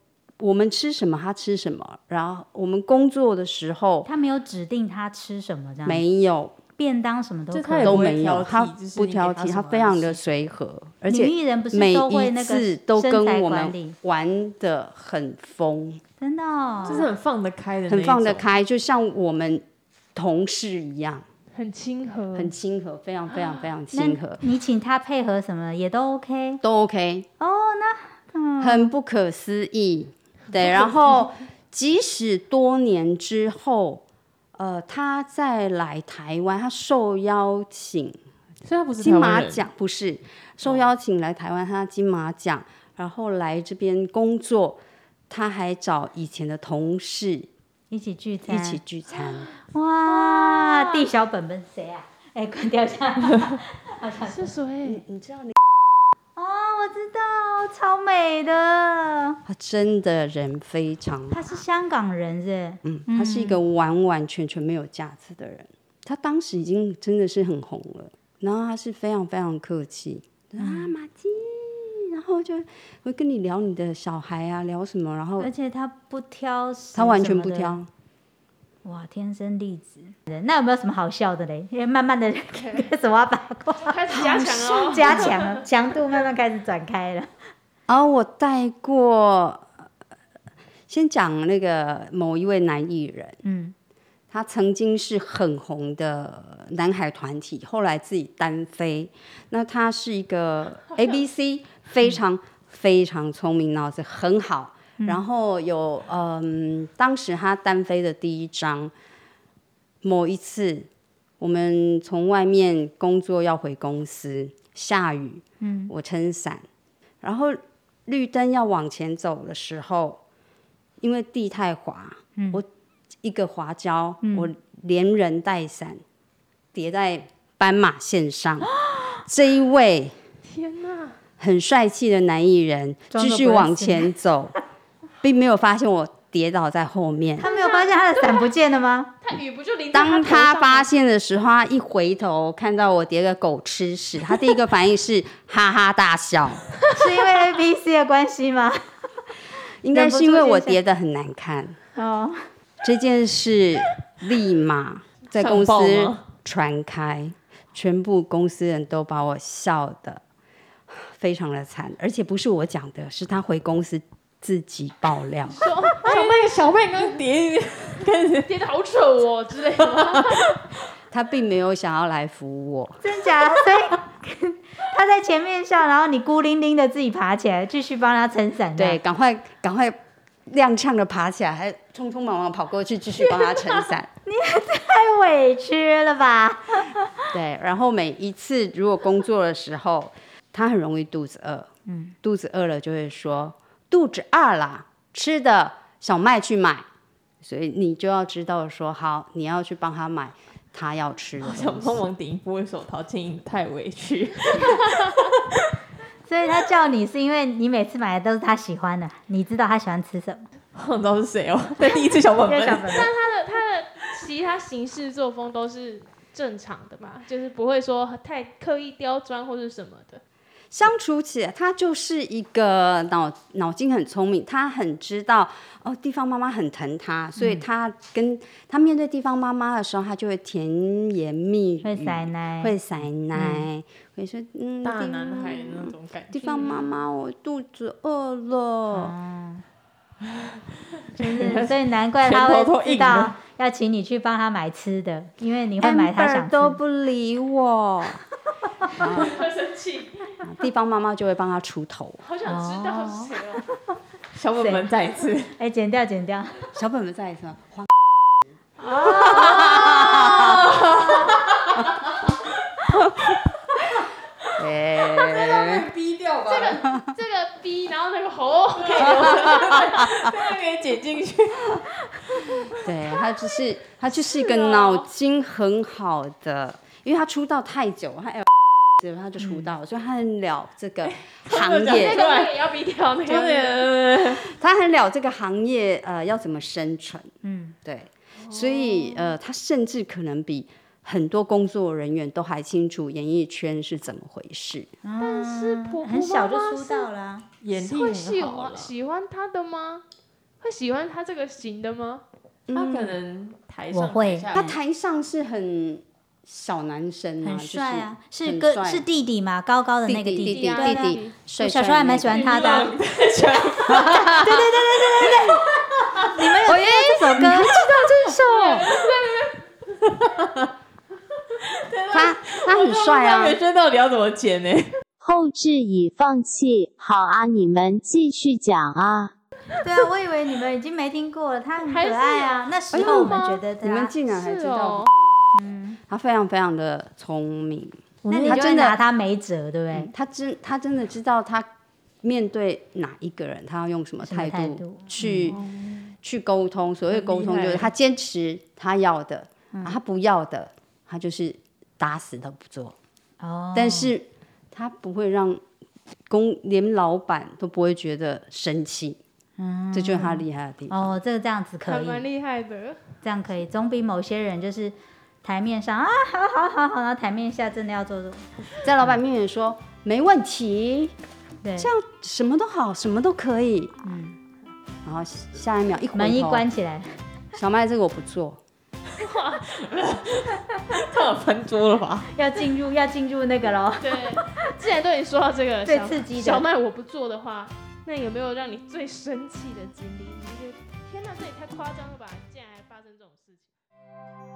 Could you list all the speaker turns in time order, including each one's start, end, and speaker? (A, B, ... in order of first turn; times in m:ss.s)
0:00.4-0:04.1 A
0:04.0-0:06.0 B
0:05.8-0:06.6 A
0:06.8-0:08.1 B
0:07.5-0:10.2 C
0:07.8-0:16.0 A
0:11.1-0:14.0 B
0:16.2-0:17.1 B
0:16.8-0:18.5 C
0:17.9-0:19.6 A
0:20.1-0:21.2 A
0:21.5-0:22.5 D
0:22.3-0:24.4 A
0:23.9-0:26.6 B
0:26.6-0:27.3 A
0:27.4-0:28.9 B
0:28.6-0:34.0 A
0:30.5-0:31.2 D
0:34.6-0:38.2 A
0:38.6-0:39.6 C
0:39.0-0:47.5 A
0:47.9-0:48.8 B
0:48.4-0:49.5 A
0:49.7-0:54.5 B
0:50.1-0:51.1 D
0:54.2-0:55.0 D
0:54.8-0:55.6 A
0:56.4-0:59.4 B
0:59.4-1:01.4 A
1:01.3-1:03.6 B
1:02.8-1:15.5 A
1:10.6-1:10.9 B
1:15.4-1:17.8 B
1:16.9-1:17.9 A
1:18.8-1:24.3 B
1:22.6-1:22.8 D
1:23.8-1:25.6 D
1:24.1-1:25.3 A
1:24.8-1:27.3 B
1:27.9-1:29.7 A
1:30.9-1:33.4 A
1:33.4-1:33.8 B
1:34.3-1:48.9 A
1:50.0-1:50.9 A
1:51.4-1:56.6 A
1:55.6-1:55.9 B
1:57.2-2:00.2 A
2:01.0-2:02.6 A
2:02.4-2:02.6 B
2:03.2-2:06.0 A
2:04.2-2:04.5 B
2:06.7-2:08.7 A
2:09.2-2:10.2 A
2:10.4-2:11.2 D
2:11.4-2:14.5 A
2:13.1-2:14.1 B
2:15.2-2:17.4 A
2:17.4-2:19.1 B
2:17.4-2:18.5 D
2:19.2-2:20.9 D
2:19.9-2:26.6 A
2:26.9-2:28.8 B
2:29.8-2:31.8 A
2:29.9-2:30.8 B
2:32.0-2:32.4 B
2:32.8-2:40.2 A
2:35.4-2:36.2 C
2:40.9-2:45.6 A
2:45.5-2:46.7 D
2:46.0-2:48.5 C
2:48.5-2:50.5 D
2:50.1-2:50.6 C
2:51.1-2:53.0 A
2:53.0-2:59.0 B
2:58.8-3:04.1 A
3:04.2-3:07.3 B
3:07.3-3:11.7 A
3:11.9-3:12.1 B
3:12.2-3:16.8 A
3:17.4-3:22.0 A
3:21.4-3:25.3 C
3:26.2-3:30.5 B
3:30.8-3:33.0 C
3:32.5-3:33.1 B
3:32.8-3:40.2 D
3:40.7-3:59.1 A
3:47.4-3:47.6 B
3:51.8-3:52.8 B
3:53.3-3:53.7 B
3:54.8-3:56.9 C
3:58.9-3:59.6 B
4:00.3-4:00.6 C
4:01.1-4:03.3 C
4:01.1-4:06.8 B
4:05.8-4:08.2 A
4:09.0-4:09.4 A
4:09.2-4:10.4 D
4:10.4-4:12.2 A
4:12.2-4:13.7 D
4:12.4-4:13.4 B
4:14.3-4:15.5 C
4:14.6-4:14.8 B
4:15.6-4:16.6 B
4:16.7-4:17.9 A
4:18.8-4:19.9 B
4:19.0-4:20.7 A
4:19.3-4:22.3 C
4:22.9-4:23.4 C
4:24.6-4:25.9 A
4:25.2-4:27.0 C
4:26.5-4:30.1 D
4:28.8-4:31.9 C
4:32.8-4:42.2 A
4:34.2-4:35.1 D
4:39.4-4:39.7 B
4:41.0-4:42.6 C
4:41.9-4:43.9 D
4:43.3-4:44.4 C
4:44.2-4:47.3 A
4:47.4-4:47.8 B
4:47.8-4:54.9 A
4:48.4-4:49.3 D
4:55.0-4:57.5 B
4:55.2-4:57.1 D
4:57.6-4:58.9 C
4:57.8-5:00.0 D
5:00.6-5:02.2 D
5:02.7-5:03.2 A
5:02.7-5:04.6 C
5:03.9-5:04.8 B
5:04.5-5:09.0 A
5:07.4-5:12.9 B
5:10.0-5:12.6 A
5:10.5-5:11.3 D
5:12.3-5:14.5 C
5:13.9-5:15.6 B
5:13.9-5:14.6 A
5:15.3-5:16.3 C
5:16.2-5:17.8 B
5:16.6-5:18.9 A
5:18.2-5:20.7 C
5:18.5-5:19.0 D
5:21.6-5:24.9 C
5:22.1-5:23.6 A
5:25.2-5:29.3 E
5:29.8-5:34.1 B
5:31.8-5:33.7 D
5:32.9-5:35.1 A
5:34.2-5:35.1 D
5:35.5-5:36.0 B
5:36.1-5:39.0 A
5:38.2-5:38.6 C
5:38.3-5:40.1 B
5:39.9-5:41.7 A
5:42.2-5:45.6 A
5:44.2-5:45.6 B
5:45.5-5:46.1 D
5:46.2-5:53.0 A
5:47.1-5:47.9 C
5:53.4-5:54.1 B
5:53.7-5:55.6 A
5:56.3-5:59.2 A
5:59.6-6:02.3 B
5:59.9-6:01.1 A
6:01.8-6:03.0 D
6:03.2-6:08.5 B
6:08.8-6:11.1 A
6:11.6-6:11.9 B
6:11.8-6:13.9 A
6:14.0-6:14.4 B
6:15.0-6:16.6 A
6:16.1-6:17.1 B
6:17.5-6:18.6 A
6:19.2-6:19.8 D
6:19.7-6:22.3 C
6:22.3-6:24.7 B
6:24.0-6:33.7 D
6:25.8-6:26.6 B